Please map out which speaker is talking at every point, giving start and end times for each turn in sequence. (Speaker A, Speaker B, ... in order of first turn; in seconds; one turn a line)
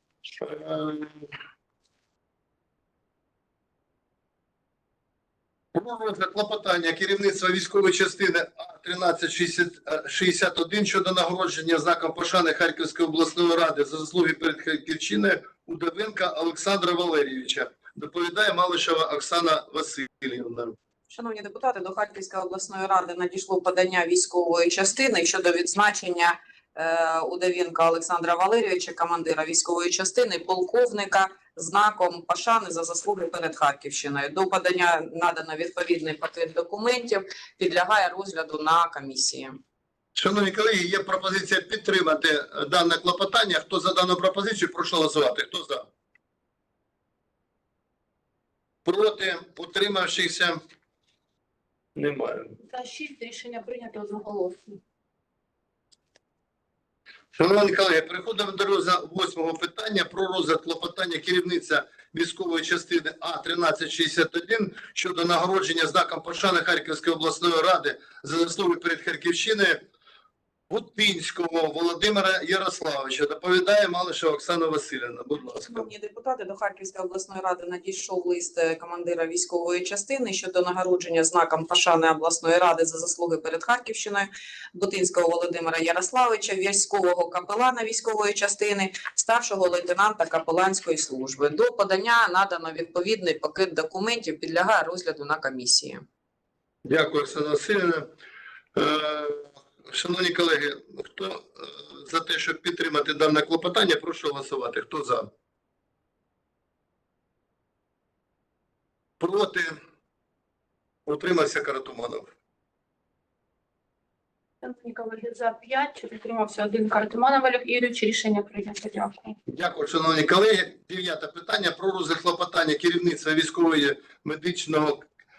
Speaker A: 0.4-1.3
Speaker A: 5.7-20.8
Speaker B: 21.1-39.6
Speaker A: 40.1-45.9
Speaker A: 48.8-50.6
Speaker A: 52.0-52.5
Speaker C: 52.7-54.8
Speaker A: 57.3-69.8
Speaker A: 70.7-75.9
Speaker B: 75.7-96.0
Speaker A: 96.8-98.1
Speaker A: 98.7-105.3
Speaker A: 109.2-109.8
Speaker A: 111.0-112.3
Speaker C: 114.6-119.3
Speaker A: 119.5-125.0